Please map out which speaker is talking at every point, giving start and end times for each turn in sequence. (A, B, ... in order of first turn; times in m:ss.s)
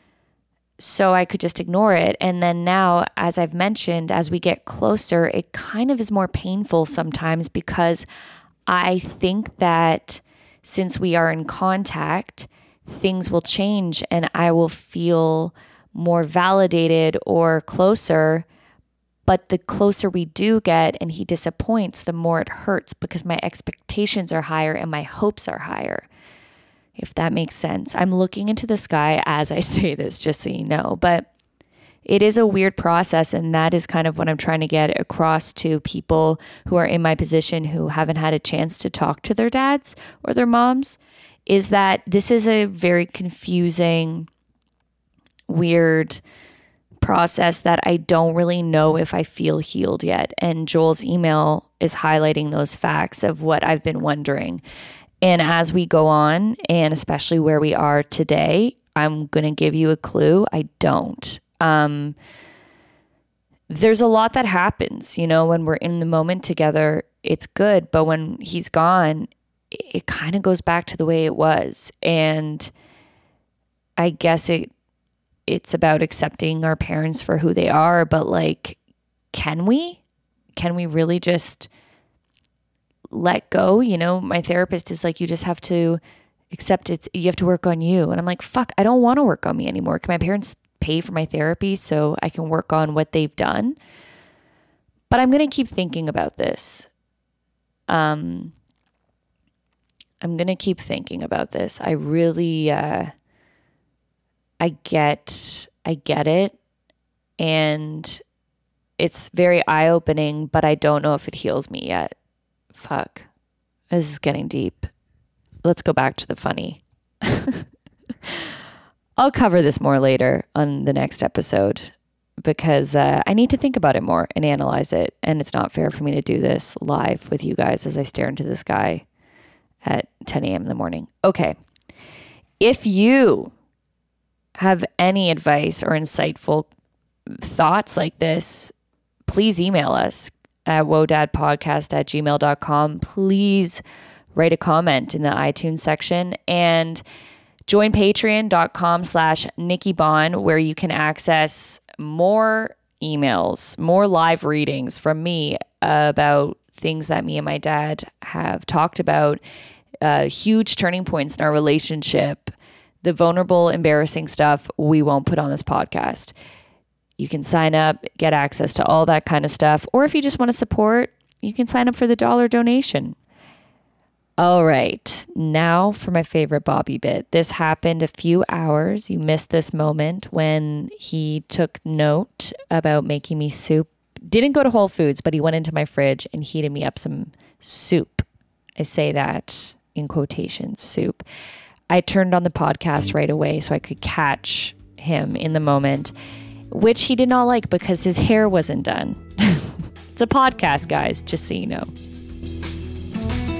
0:00.8-0:08.0 A
0:08.7-0:18.5 A
0:19.3-0:26.1 A
0:27.0-0:31.3 A
0:32.0-0:44.3 A
0:45.5-0:46.2 A
0:47.0-0:54.6 A
0:55.2-1:02.2 A
1:03.7-1:12.7 A
1:14.0-1:14.7 A
1:15.5-1:18.8 A
1:19.3-1:20.0 A
1:20.6-1:21.7 A
1:23.1-1:26.0 A
1:26.5-1:33.8 A
1:35.1-1:36.9 A
1:37.9-1:38.5 A
1:40.2-1:43.1 A
1:44.6-1:46.6 A
1:47.4-1:48.2 A
1:49.0-1:52.1 A
1:52.7-1:53.3 A
1:53.9-1:54.9 A
1:55.6-1:57.6 A
1:59.2-2:09.0 A
2:09.8-2:11.6 A
2:12.6-2:13.5 A
2:14.5-2:16.7 A
2:17.3-2:18.7 A
2:19.2-2:23.8 A
2:24.3-2:27.0 A
2:27.7-2:39.4 A
2:40.0-2:46.3 A
2:47.2-2:53.2 A
2:54.4-3:08.2 A
3:08.8-3:11.2 A
3:11.9-3:16.1 A
3:16.7-3:21.9 A